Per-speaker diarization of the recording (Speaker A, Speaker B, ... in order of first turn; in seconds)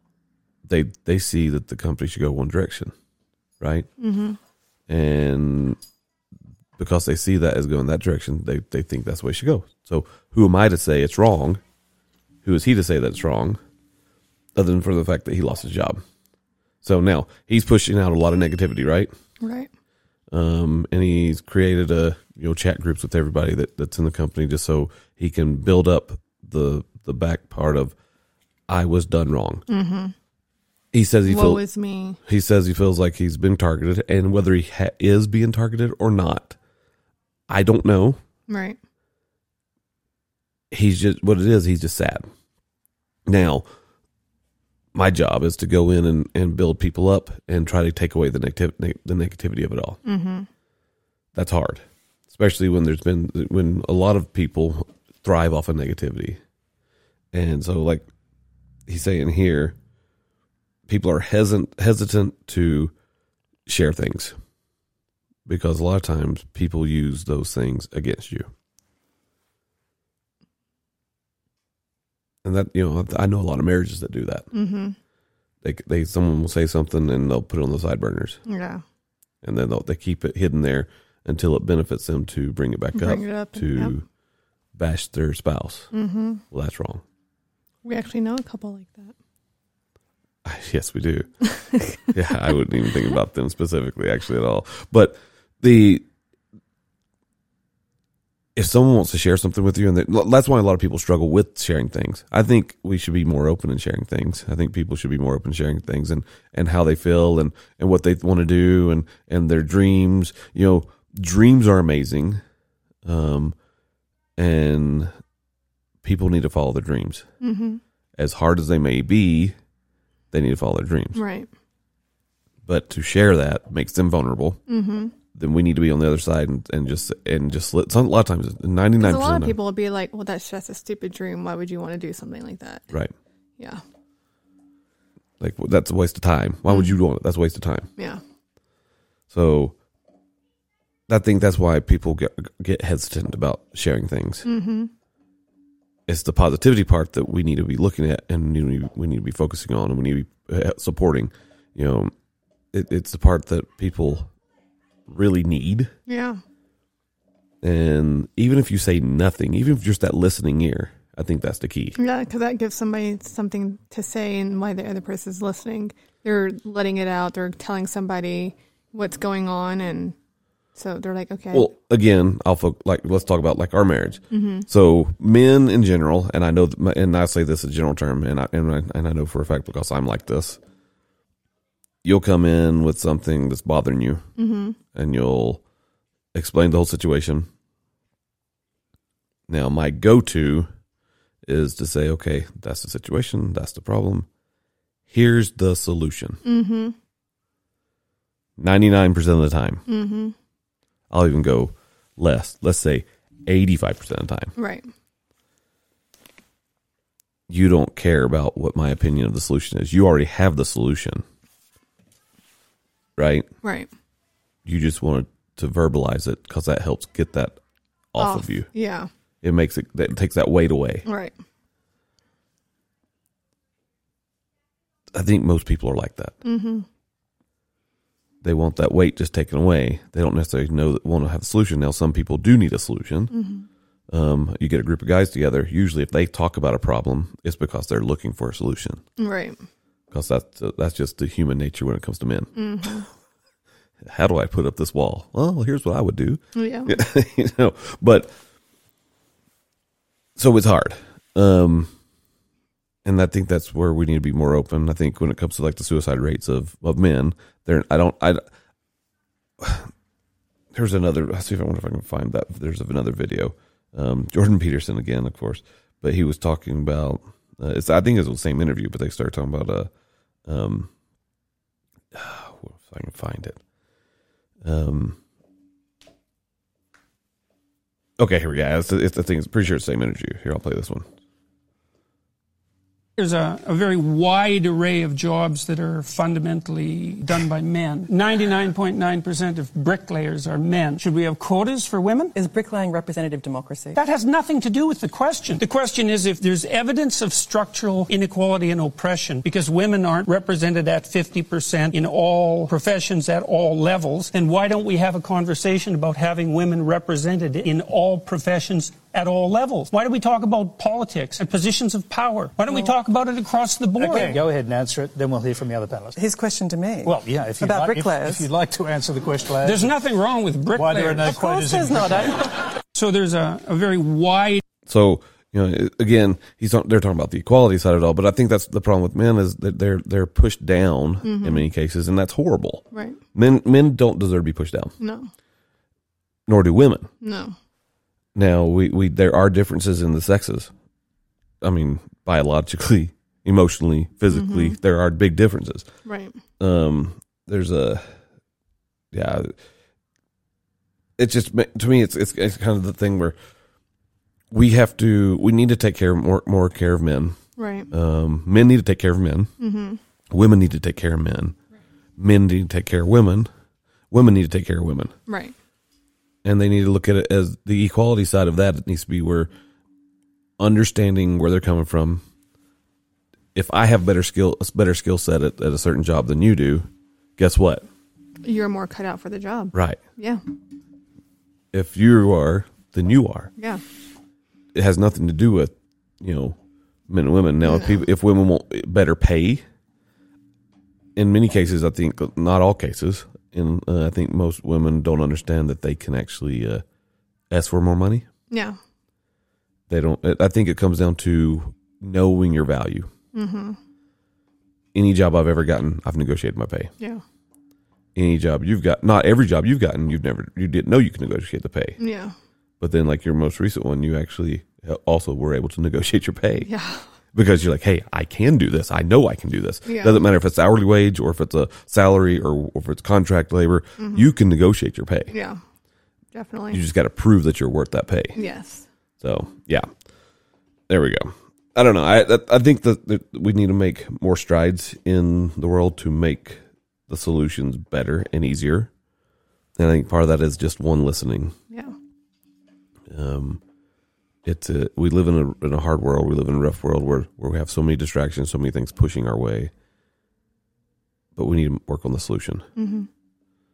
Speaker A: 0.7-2.9, 3.6-3.9, 4.9-5.8, 6.8-11.6, 12.4-13.6, 14.6-16.0, 16.8-19.1, 20.3-27.9, 28.7-29.6, 30.9-31.6, 32.3-36.6, 37.5-38.2, 40.7-42.3, 43.3-43.6, 44.9-50.0, 51.4-56.4, 57.3-58.1, 58.9-59.8, 60.9-62.9, 63.7-64.3, 65.5-68.5, 72.4-74.5, 75.6-78.4, 79.4-84.0, 84.8-85.9, 86.5-87.0, 90.4-91.3, 92.0-96.0, 98.5-112.4, 113.0-113.5, 114.4-115.1, 116.0-117.3, 118.2-119.6, 120.3-121.2, 122.7-124.6, 125.3-129.6, 135.4-137.9, 139.3-139.8, 141.1-144.5, 146.1-152.1, 152.7-154.3, 155.1-155.9, 157.6-162.0, 171.5-180.6, 182.0-184.3, 184.9-185.6, 186.3-187.5, 189.5-190.7, 191.4-194.3, 195.1-196.4, 198.6-199.8, 201.1-204.5, 207.5-211.2, 213.2-213.5, 214.7-217.6, 218.1-218.7, 219.4-221.1, 225.1-226.4, 228.4-233.3, 234.1-239.0, 240.1-242.5, 244.0-248.3, 250.4-251.9, 253.1-258.4, 259.6-259.9, 260.7-269.9, 270.5-270.9, 272.1-273.6, 274.6-275.2, 278.2-281.1, 324.9-334.9, 336.5-337.1, 338.4-340.7, 341.6-345.9, 346.6-348.1, 349.1-349.5, 351.2-353.4, 354.5-357.4, 357.9-359.5, 360.3-361.6, 362.2-363.5, 364.1-365.1, 366.4-369.5, 370.6-372.2, 373.6-377.9, 379.7-380.0, 381.7-383.5, 384.7-386.6, 387.1-389.6, 391.2-396.8, 397.5-398.3, 399.9-403.1, 404.9-406.9, 408.1-412.0, 412.8-416.7, 417.3-425.3, 426.7-428.4, 429.2-429.9, 430.9-438.9, 439.8-441.6, 443.1-443.6, 444.4-449.7, 451.4-452.7
Speaker B: 4.0-4.4, 19.4-19.7, 29.7-30.1, 31.2-32.2, 38.5-38.8, 50.0-50.5, 74.5-75.0, 78.5-78.8, 83.0-83.9, 85.9-86.4, 87.8-89.1, 91.6-92.1, 117.4-117.8, 121.2-121.5, 124.7-125.2, 129.0-132.9, 136.7-136.9, 144.4-144.9, 156.1-156.4, 162.0-170.2, 170.8-171.7, 174.3-174.7, 184.4-184.8, 196.4-196.9, 199.9-200.3, 204.6-204.9, 213.6-213.9, 218.2-219.1, 221.1-221.3, 226.4-226.9, 233.3-233.7, 239.2-239.6, 242.6-243.1, 246.6-247.0, 331.2-331.7, 332.9-333.2, 335.0-335.3, 337.2-337.6, 344.3-344.8, 346.1-346.4, 357.6-357.9, 359.6-360.0, 365.3-365.6, 378.4-380.4, 387.6-388.0, 398.5-398.8, 403.3-403.8, 412.0-412.4, 416.7-417.1, 419.9-420.2, 424.0-424.3, 425.3-425.6, 426.3-426.8, 428.4-428.9, 452.8-453.1
Speaker C: 283.2-292.4, 293.9-314.4, 319.6-322.2, 322.9-324.6
Speaker D: 292.4-294.0, 316.1-318.5, 321.2-322.6
Speaker E: 314.0-316.1, 317.1-319.9, 320.8-321.7